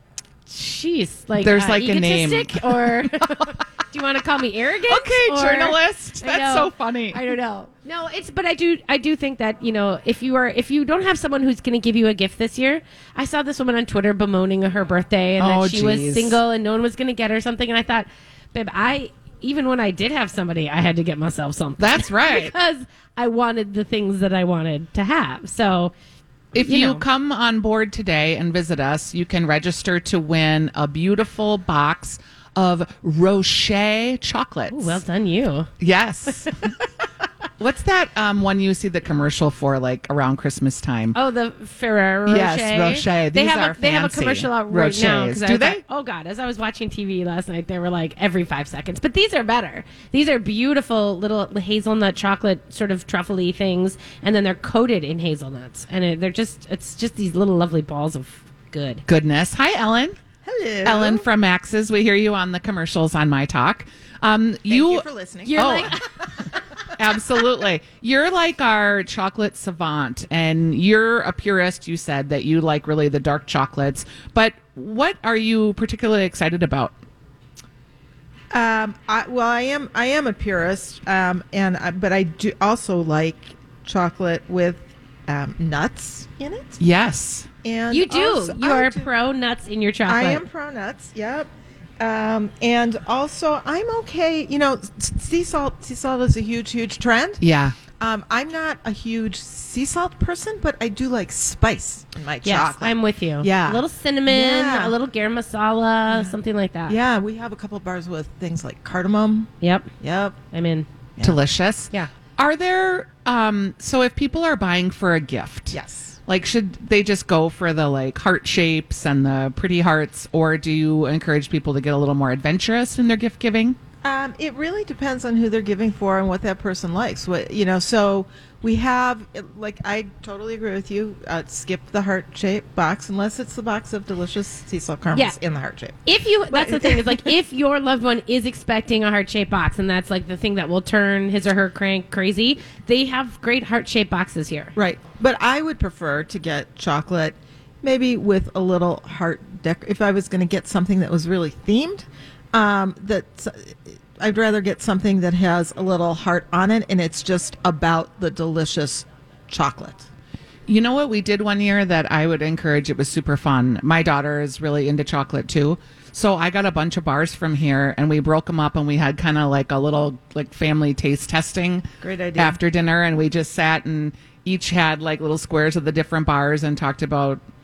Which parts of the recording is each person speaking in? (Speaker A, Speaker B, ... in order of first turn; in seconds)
Speaker A: 0.5-25.9, 26.6-27.0, 34.7-35.7, 41.1-59.0, 65.4-66.0, 87.9-90.4, 102.4-107.0, 109.6-109.9, 110.5-110.9, 136.1-144.7
Speaker B: 1.4-3.5, 4.9-7.2, 15.4-16.4, 21.8-22.5, 26.5-35.0, 35.8-36.6, 37.6-41.1, 42.2-45.8, 59.1-60.2, 60.8-65.9, 66.9-77.0, 86.8-87.5, 97.4-97.8, 111.2-123.8, 160.7-177.4
Speaker C: 60.4-61.3, 64.7-66.0, 78.5-86.8, 87.6-89.1, 90.0-97.4, 98.0-105.0, 106.1-106.4, 106.9-110.4, 115.7-116.2, 124.0-137.3, 144.7-160.1, 172.0-172.6